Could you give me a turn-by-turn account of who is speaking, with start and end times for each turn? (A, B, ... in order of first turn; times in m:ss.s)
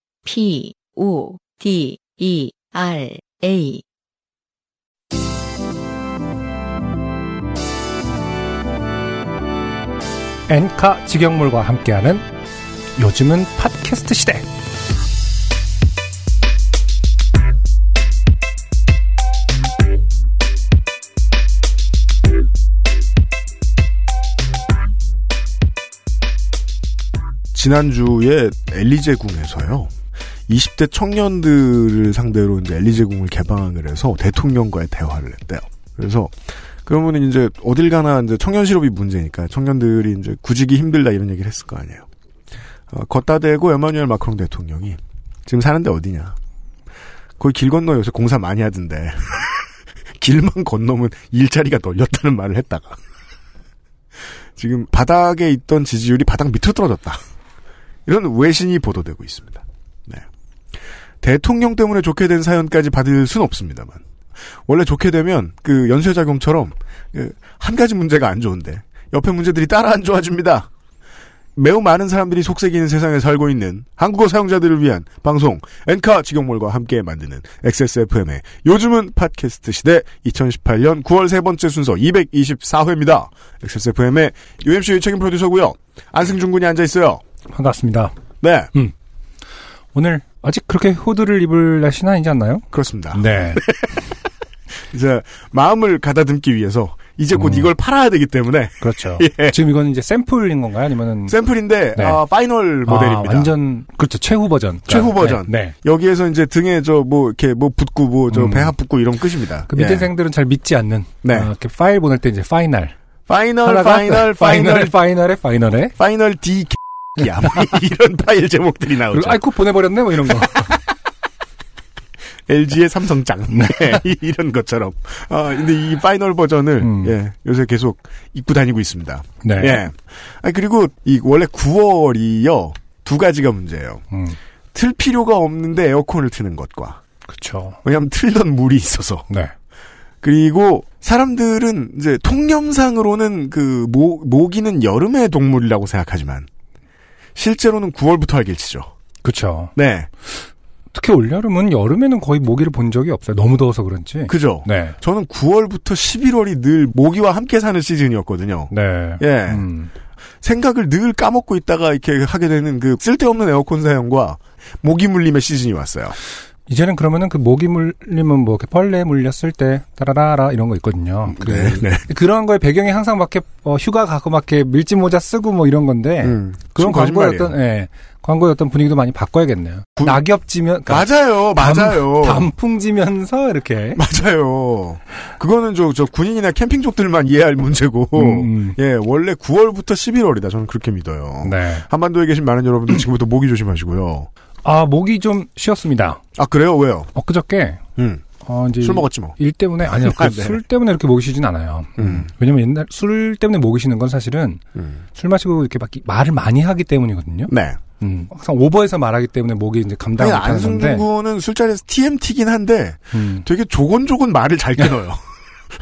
0:00.3-0:03.8 A
0:10.5-0:12.2 B
0:13.0-0:14.5 B
0:27.5-0:29.9 C
0:30.5-0:42.0 C
0:42.9-0:46.3 C
0:47.4-0:49.5 C
0:50.2-0:53.0 C
0:54.6-0:57.2 C
0:58.1-1:00.2 C
1:01.2-1:04.0 C
1:04.7-1:10.7 C
1:11.6-1:27.2 C
1:27.5-1:28.1 B
1:28.4-1:28.7 C
1:29.9-1:33.6 B
1:32.7-1:33.9 C
1:34.9-1:39.6 C
1:37.3-1:37.7 B
1:38.8-1:41.4 B
1:41.3-1:43.5 C
1:42.0-1:42.2 B
1:42.8-1:45.8 B
1:44.9-1:50.1 C
1:48.3-1:48.8 B
1:49.7-1:53.0 B
1:51.2-1:51.5 C
1:53.3-1:55.0 C
1:53.6-1:56.0 B
1:56.0-1:59.4 C
1:59.1-2:00.8 B
2:02.5-2:14.0 C
2:03.5-2:04.0 B
2:06.8-2:07.1 B
2:09.4-2:09.8 B
2:14.1-2:14.4 B
2:14.7-2:17.0 C
2:17.3-2:17.8 B
2:17.8-2:19.2 C
2:20.2-2:26.5 C
2:27.4-2:28.9 C
2:29.2-2:29.7 B
2:29.8-2:30.1 C
2:30.9-2:35.0 B
2:34.3-2:39.6 C
2:38.7-2:39.9 B
2:40.4-2:46.2 C
2:46.7-3:04.0 B
2:51.3-2:52.0 C
2:56.2-2:57.5 C
3:00.0-3:00.2 C
3:00.9-3:02.5 C
3:03.9-3:14.3 C
3:08.1-3:08.8 B
3:11.4-3:11.9 B
3:14.6-3:16.2 B
3:16.4-3:17.1 C
3:17.1-3:17.8 B
3:18.0-3:18.2 C
3:18.4-3:24.6 B
3:18.8-3:19.4 C
3:20.0-3:20.6 C
3:22.0-3:22.2 C
3:25.2-3:31.0 B
3:27.5-3:27.8 C
3:30.2-3:35.2 C
3:33.1-3:33.4 B